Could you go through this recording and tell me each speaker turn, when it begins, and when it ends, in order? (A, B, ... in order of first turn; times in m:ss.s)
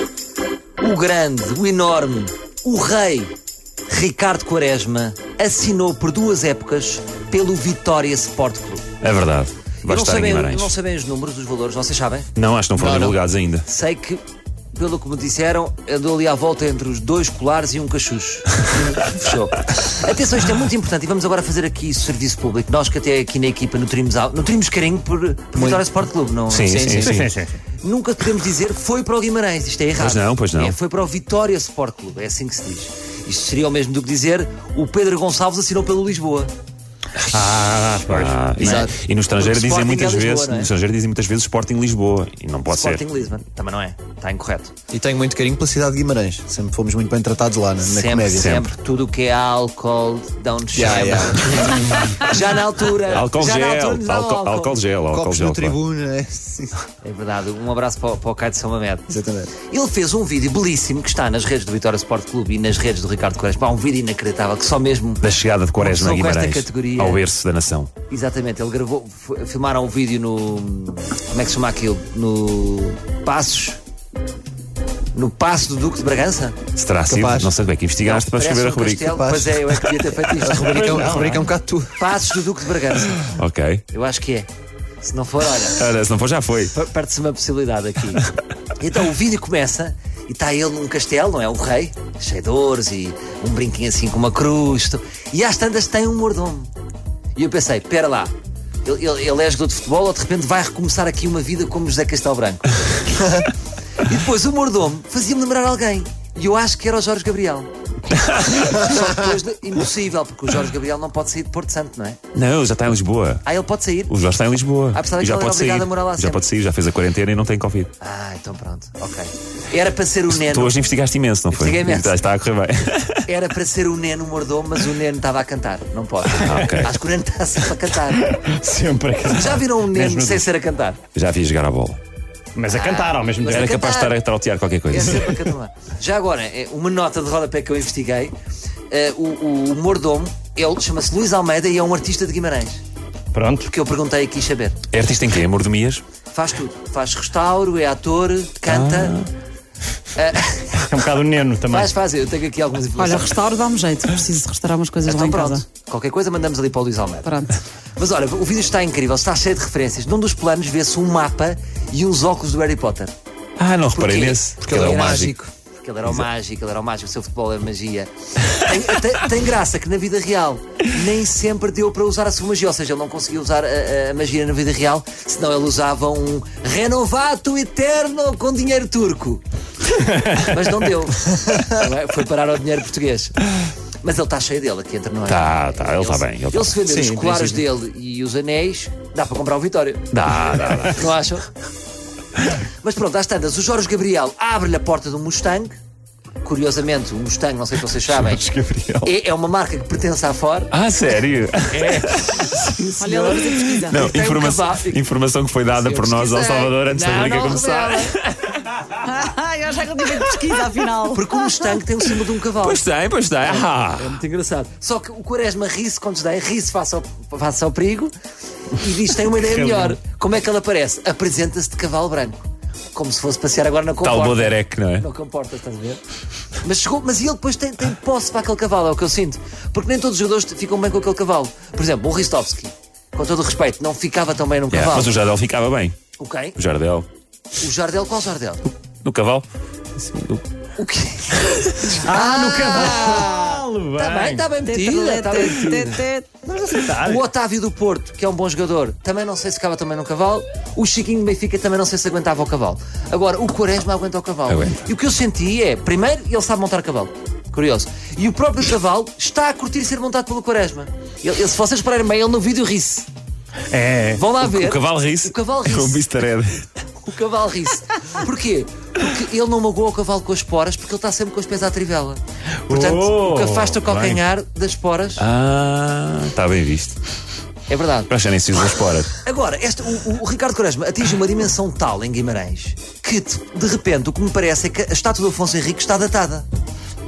0:00.8-0:03.4 A
0:03.9-0:08.9 A
0:09.0-0:10.7 B
0:09.8-0:12.3 A
0:12.4-0:13.6 B
0:12.8-0:13.1 C
0:13.7-0:14.2 A
0:14.7-0:26.9 A
0:25.6-0:25.8 C
0:26.5-0:27.3 B
0:26.6-0:27.2 C
0:26.9-0:27.6 D
0:27.8-0:36.5 A
0:30.0-0:30.8 B
0:37.3-0:38.5 D
0:38.1-0:43.1 B
0:38.6-0:38.9 C
0:38.6-0:40.7 A
0:42.7-0:44.7 A
0:44.9-0:48.5 C
0:47.8-0:54.8 A
0:48.3-0:48.7 B
0:50.7-0:52.2 C
0:53.1-0:55.8 B
0:55.1-0:56.8 C
0:57.0-1:05.2 A
0:59.1-0:59.5 C
1:05.2-1:07.9 B
1:05.8-1:07.2 A
1:08.1-1:13.8 A
1:15.1-1:16.6 A
1:16.8-1:19.2 B
1:17.1-1:17.5 C
1:18.0-1:20.8 A
1:19.1-1:19.6 C
1:20.3-1:22.0 C
1:20.4-1:21.4 D
1:22.0-1:23.3 A
1:23.3-1:23.8 B
1:23.9-1:24.5 A
1:25.0-1:25.8 A
1:25.7-1:26.7 B
1:26.7-1:28.2 A
1:28.8-1:36.7 A
1:37.4-1:38.3 A
1:38.8-1:47.7 A
1:48.5-1:52.2 A
1:52.3-1:53.4 B
1:53.4-1:54.1 A
1:54.1-1:57.9 B
1:54.9-1:56.4 A
1:58.0-2:00.8 A
2:00.4-2:03.3 B
2:01.5-2:02.2 A
2:03.3-2:08.4 A
2:06.4-2:06.9 B
2:06.4-2:06.9 D
2:08.2-2:10.5 D
2:09.3-2:11.0 A
2:11.1-2:12.0 B
2:12.6-2:13.8 D
2:12.7-2:14.2 A
2:13.5-2:15.4 B
2:14.9-2:18.4 A
2:18.9-2:22.8 A
2:23.3-2:23.7 D
2:23.7-2:24.8 A
2:24.9-2:26.0 B
2:26.3-2:29.2 A
2:28.7-2:29.3 B
2:30.2-2:30.8 A
2:30.8-2:31.9 D
2:31.7-2:33.4 A
2:33.0-2:35.6 E
2:35.0-2:37.3 A
2:37.2-2:37.6 E
2:38.0-2:43.1 A
2:43.6-2:45.4 B
2:43.9-2:59.4 A
2:44.6-2:45.5 C
3:00.1-3:00.4 D
3:00.3-3:03.4 A
3:04.0-3:10.1 A
3:05.3-3:06.8 B
3:06.9-3:07.6 C
3:10.1-3:11.0 B
3:10.9-3:11.5 A
3:12.6-3:15.8 A
3:16.4-3:18.5 A
3:18.1-3:19.1 D
3:19.0-3:20.7 A
3:20.7-3:22.4 B
3:21.7-3:25.0 A
3:23.0-3:24.1 E
3:23.7-3:28.6 B
3:25.8-3:28.2 A
3:28.9-3:31.8 E
3:31.1-3:32.8 A
3:32.6-3:34.2 B
3:33.5-3:38.1 A
3:38.7-3:46.0 A
3:44.0-3:45.1 B
3:46.6-3:55.2 A
3:54.7-3:56.0 B
3:56.2-3:56.6 A
3:56.6-3:57.1 B
3:57.6-3:58.6 A
3:59.0-4:00.4 B
4:00.8-4:06.0 A
4:01.9-4:04.5 D
4:04.7-4:06.4 E
4:06.5-4:07.2 D
4:06.9-4:23.1 A
4:14.5-4:14.8 B
4:23.7-4:24.2 D
4:24.1-4:26.0 A
4:24.4-4:26.6 B
4:27.0-4:35.2 A
4:32.7-4:34.2 D
4:35.2-4:37.0 B
4:37.7-4:38.1 A
4:38.1-4:39.1 B
4:39.2-4:46.5 A